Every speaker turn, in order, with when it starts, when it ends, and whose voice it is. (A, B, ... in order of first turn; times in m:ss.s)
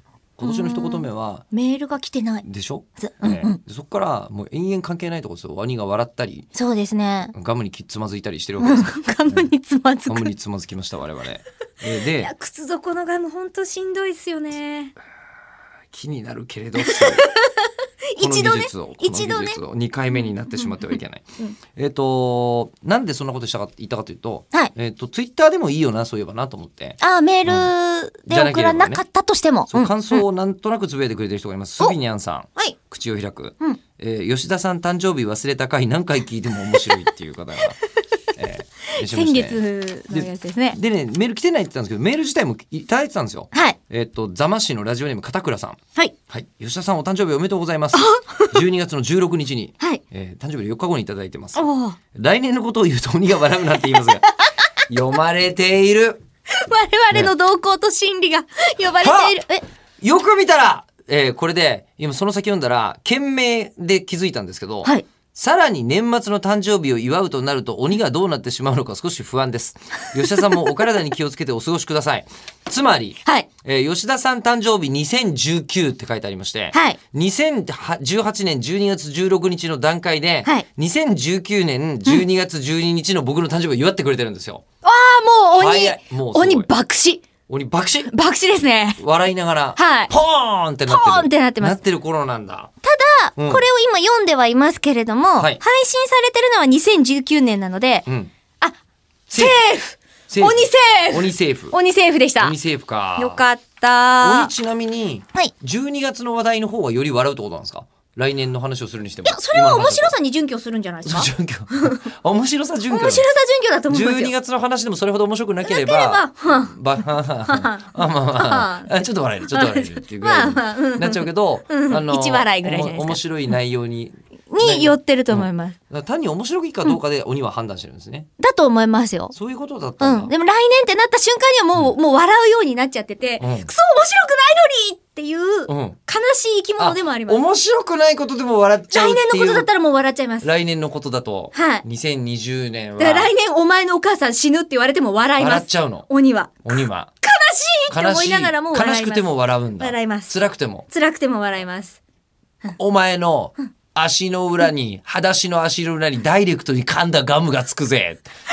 0:00.4-0:01.4 A
0:00.4-0:02.4 B
0:02.4-0:06.5 A
0:03.0-0:03.6 B
0:06.5-0:07.3 B
0:07.3-0:09.5 A
0:08.6-0:10.3 B
0:10.1-0:12.3 A
0:12.1-0:14.9 B
0:15.9-0:17.3 A
0:16.8-0:19.6 B
0:18.2-0:27.7 A
0:27.0-0:30.2 B
0:28.3-0:29.0 A
0:29.7-0:37.8 A
0:38.4-0:54.3 A
0:39.0-0:40.8 B
0:47.9-0:48.6 B
0:51.5-0:52.0 B
0:54.9-0:56.2 A
0:56.6-0:59.6 B
0:59.0-0:59.4 A
1:00.0-1:24.6 A
1:16.7-1:17.0 B
1:24.8-1:27.2 B
1:25.5-1:26.7 A
1:27.5-1:28.1 A
1:28.0-1:29.0 B
1:29.0-1:32.7 A
1:29.8-1:30.1 B
1:30.9-1:31.8 B
1:32.8-1:38.0 B
1:33.4-1:33.6 A
1:38.0-1:38.3 A
1:39.3-1:39.6 A
1:39.3-1:42.5 B
1:40.3-1:41.8 A
1:42.4-1:43.4 A
1:43.2-1:44.5 B
1:44.2-1:50.2 A
1:49.2-1:52.0 B
1:51.0-1:53.2 A
1:52.9-1:54.3 B
1:53.9-2:08.3 A
1:55.6-1:56.8 B
1:57.4-1:58.9 B
1:59.5-2:03.2 B
2:04.5-2:05.8 B
2:08.4-2:09.3 B
2:09.3-2:10.3 A
2:10.0-2:17.4 B
2:13.4-2:13.7 A
2:15.7-2:16.0 A
2:16.8-2:19.7 A
2:18.9-2:20.5 B
2:20.4-2:23.3 A
2:21.5-2:21.8 B
2:23.0-2:29.2 B
2:25.4-2:26.1 A
2:26.6-2:27.1 A
2:27.9-2:30.9 A
2:29.8-2:30.3 B
2:30.9-2:32.0 B
2:32.8-2:38.3 A